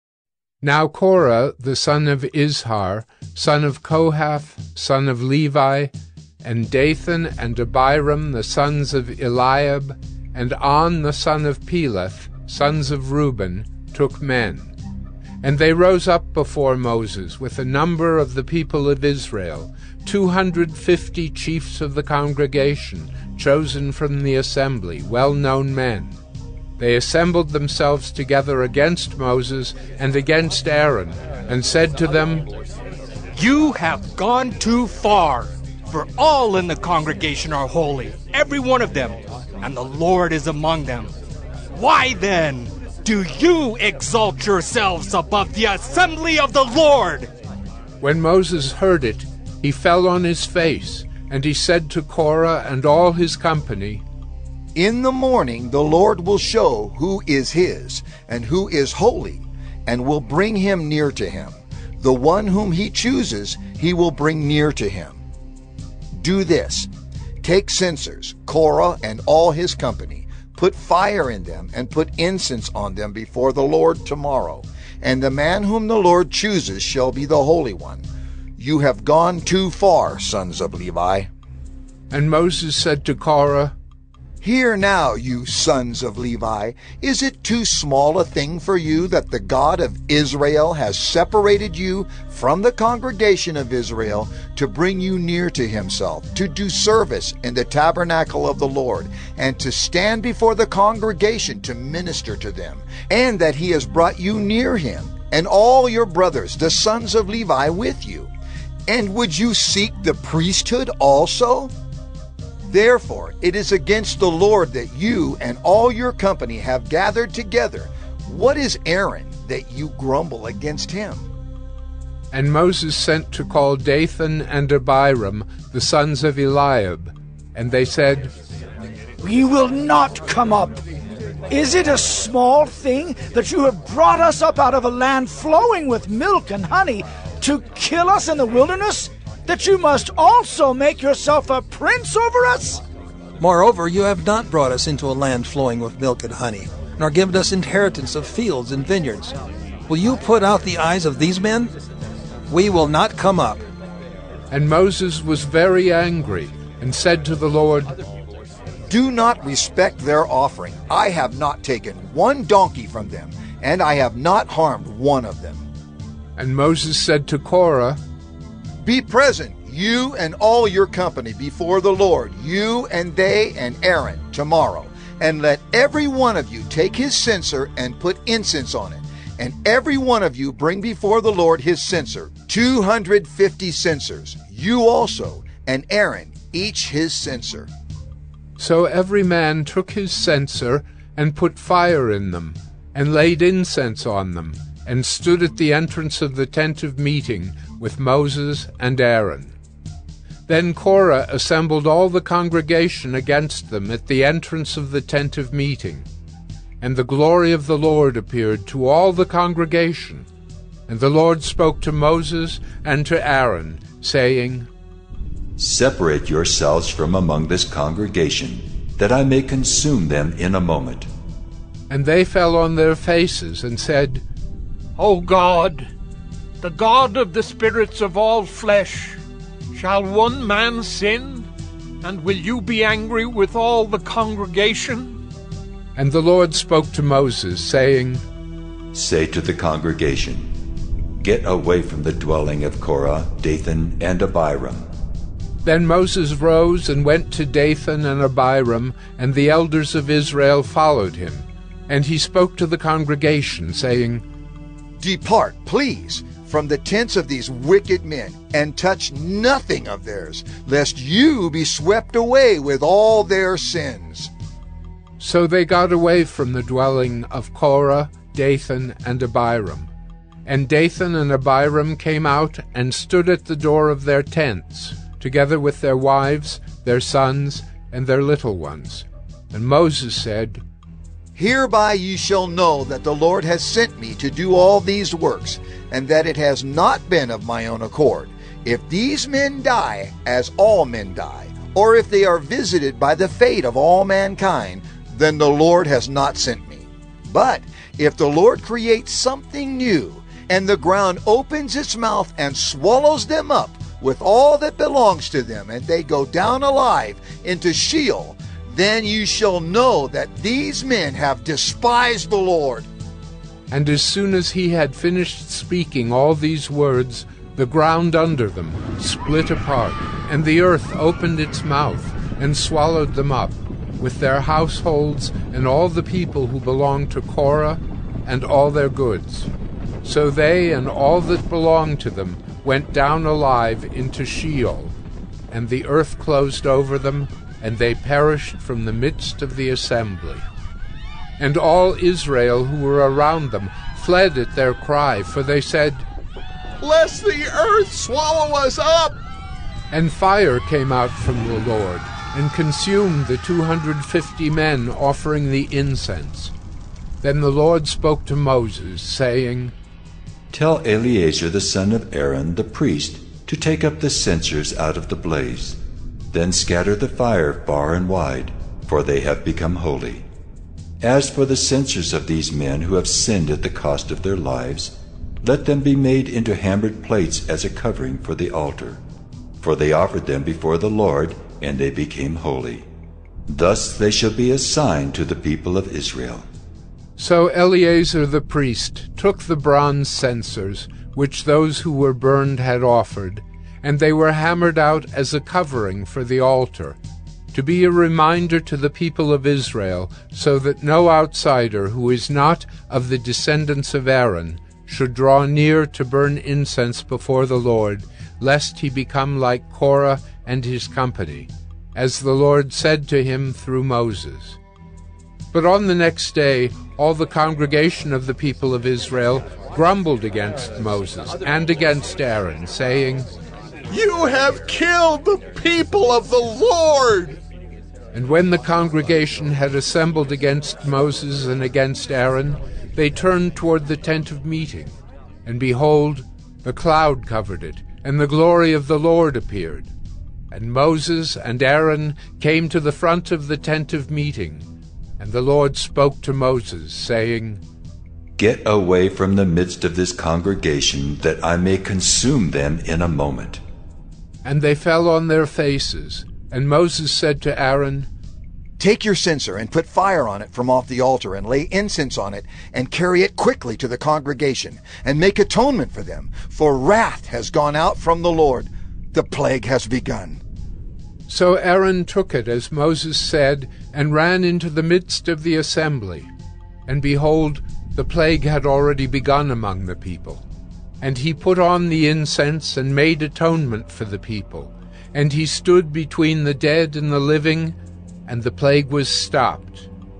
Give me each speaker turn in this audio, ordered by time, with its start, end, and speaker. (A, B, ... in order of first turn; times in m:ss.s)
0:00.6-0:05.9 A
0:06.4-0:14.7 A
0:15.4-0:26.2 A
0:26.8-0:32.4 A
0:33.4-0:41.1 B
0:41.7-0:47.3 B
0:48.0-0:54.0 A
0:54.7-1:05.2 C
1:06.2-1:06.9 C
1:07.4-1:18.0 C
1:18.6-1:21.3 C
1:22.1-1:23.7 A
1:24.4-1:48.3 C
1:48.9-1:51.7 C
1:52.7-2:01.3 C
2:02.3-2:08.3 A
2:09.2-2:10.8 D
2:11.5-2:22.8 D
2:23.4-2:29.3 E
2:29.9-2:31.7 E
2:32.5-2:33.6 E
2:34.5-2:37.9 A
2:38.9-2:45.6 C
2:46.4-2:48.0 A
2:48.8-3:07.7 C
3:08.6-3:19.5 A
3:20.5-3:26.0 A
3:26.8-3:30.3 A
3:30.9-3:34.7 A
3:35.6-3:41.1 F
3:41.9-3:44.2 A
3:45.0-3:45.9 G
3:46.6-3:49.2 G
3:49.7-3:51.5 G
3:52.0-3:55.2 G
3:56.0-3:58.2 A
3:58.9-4:00.5 F
4:01.2-4:04.9 F
4:05.6-4:14.2 A
4:15.0-4:24.3 C
4:25.2-4:29.9 A
4:30.4-4:40.6 A
4:41.4-5:12.9 C
5:13.7-5:29.5 A
5:30.0-5:34.9 A
5:35.5-5:40.4 A
5:41.4-5:46.1 A
5:46.8-5:49.2 H
5:49.9-5:56.5 A
5:57.2-5:59.7 A
6:00.5-6:05.8 F
6:06.3-6:10.2 F
6:11.0-6:19.0 F
6:19.6-6:22.9 F
6:23.5-6:26.5 F
6:27.2-6:37.0 A
6:37.5-6:54.6 A
6:55.5-7:03.3 A
7:03.9-7:07.4 H
7:08.1-7:14.9 A
7:15.4-7:19.9 A
7:20.5-7:24.6 A
7:25.2-7:27.6 A
7:28.4-7:33.6 F
7:34.4-7:38.1 A
7:38.8-7:50.4 C
7:51.3-7:56.3 A
7:56.9-8:00.4 A
8:01.0-8:07.8 A
8:08.3-8:09.9 A